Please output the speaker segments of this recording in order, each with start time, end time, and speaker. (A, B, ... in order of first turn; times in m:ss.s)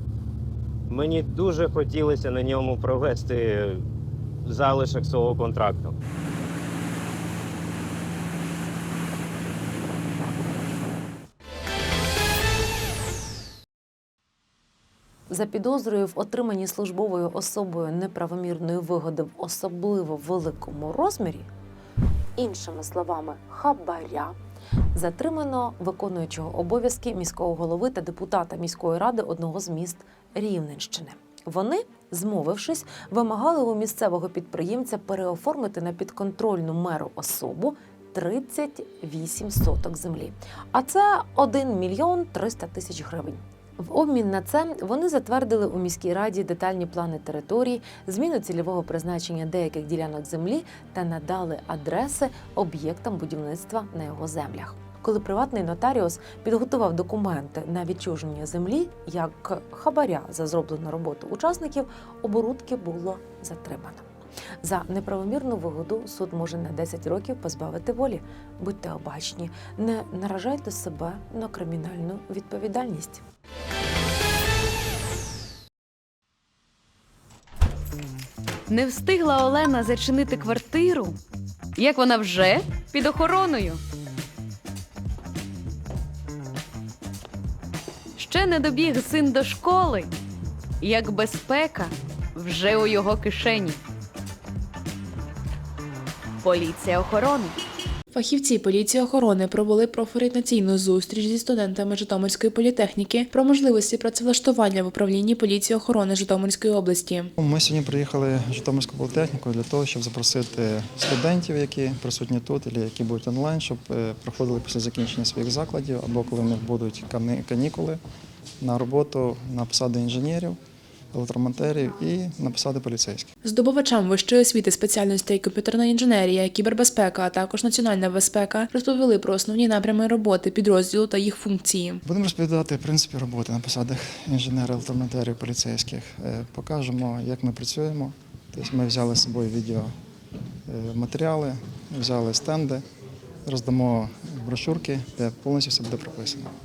0:00.9-0:03.8 A
0:04.5-0:05.9 A
0:15.3-0:21.5 B
0:22.4-0:24.3 B
0:24.9-1:04.0 B
1:04.6-1:13.2 B
1:18.7-1:21.1 C
1:21.8-1:23.8 C
1:28.2-1:30.1 C
1:30.8-1:33.8 C
1:36.4-1:37.5 C
1:38.1-1:47.3 D
1:47.4-1:58.0 E
1:58.6-2:00.6 E
2:01.1-2:03.3 E
2:03.4-2:12.0 D
2:12.1-2:19.9 E
2:20.7-2:22.8 E
2:23.4-2:26.5 E